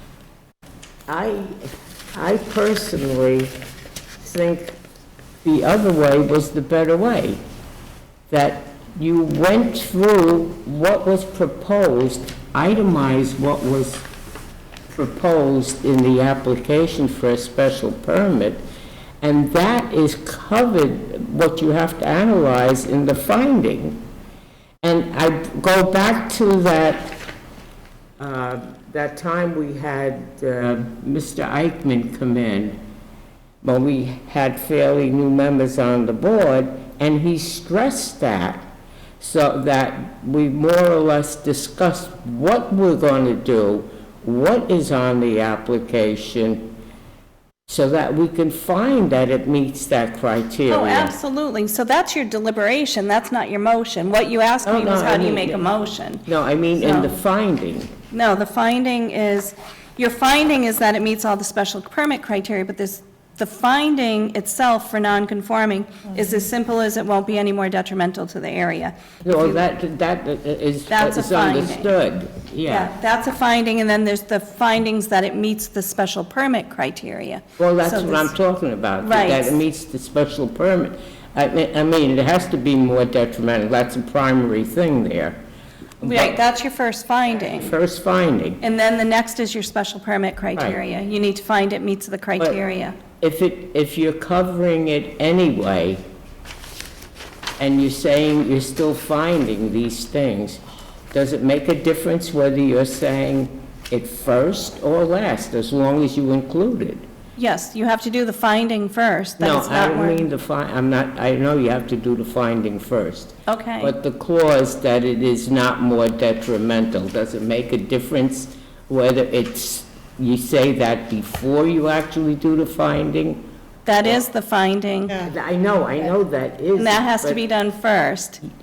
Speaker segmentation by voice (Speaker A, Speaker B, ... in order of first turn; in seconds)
Speaker A: 1.1-3.5, 4.2-4.8, 5.4-7.4, 8.3-14.1, 14.9-18.6, 19.2-24.0, 24.8-27.2, 28.2-32.8, 33.6-46.7, 47.7-51.1, 54.6-55.7, 56.2-57.9, 69.2-72.9, 77.6-85.4, 86.0-86.4, 87.5-88.6, 93.2-96.0, 97.6-100.6, 101.1-107.0, 109.4-123.4, 125.2-127.4
Speaker B: 50.7-56.3, 56.8-57.1, 58.1-69.6, 70.9-71.9, 72.7-78.3, 79.0-79.6, 86.0-87.7, 88.6-93.0, 107.4-110.2, 113.5-114.0, 123.8-125.2, 126.8-128.4